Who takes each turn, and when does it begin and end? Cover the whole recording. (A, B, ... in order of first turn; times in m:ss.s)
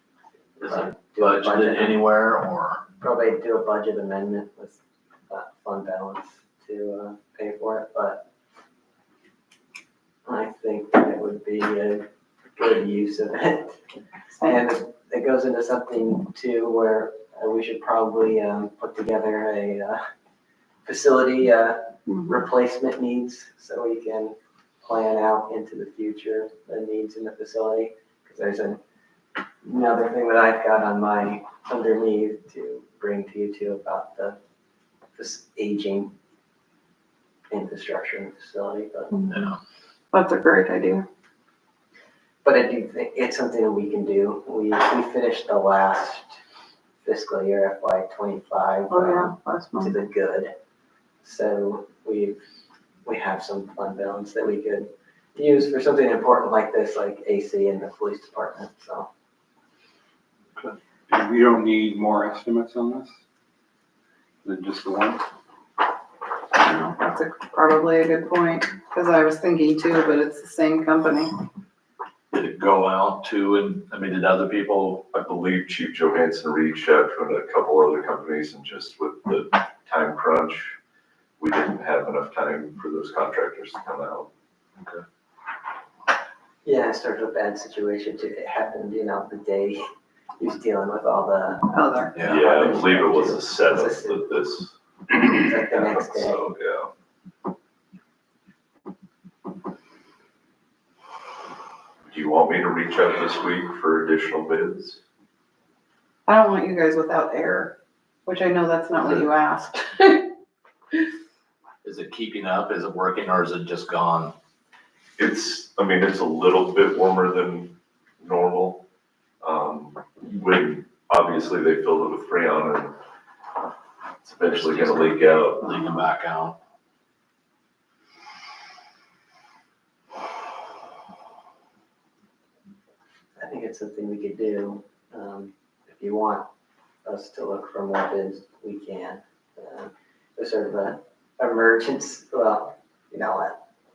0:00.6-0:02.0 A
0:00.6-0:02.8 B
0:03.0-0:08.3 A
0:10.2-0:13.8 A
0:14.4-0:14.6 C
0:14.4-0:20.0 A
0:20.8-0:28.8 A
0:29.6-0:34.4 A
0:35.2-0:36.1 A
0:37.5-0:39.2 A
0:39.1-0:39.5 C
0:39.3-0:39.6 B
0:40.1-0:41.1 C
0:42.4-0:46.4 A
0:47.0-0:50.5 A
0:48.9-0:49.9 C
0:51.2-0:52.4 A
0:53.0-0:59.1 A
1:01.1-1:03.1 D
1:04.4-1:05.2 D
1:06.6-1:11.4 C
1:12.3-1:15.0 B
1:15.1-1:20.8 E
1:21.4-1:24.3 E
1:26.6-1:29.9 A
1:30.4-1:34.2 A
1:31.7-1:32.2 C
1:32.2-1:32.4 B
1:32.2-1:34.8 E
1:35.1-1:36.4 A
1:35.3-1:36.9 E
1:42.1-1:45.0 E
1:46.3-1:50.3 C
1:51.8-1:54.4 B
1:55.2-1:58.9 E
1:59.4-2:03.0 E
2:04.2-2:05.9 E
2:04.4-2:06.6 B
2:13.4-2:16.5 A
2:17.0-2:23.6 A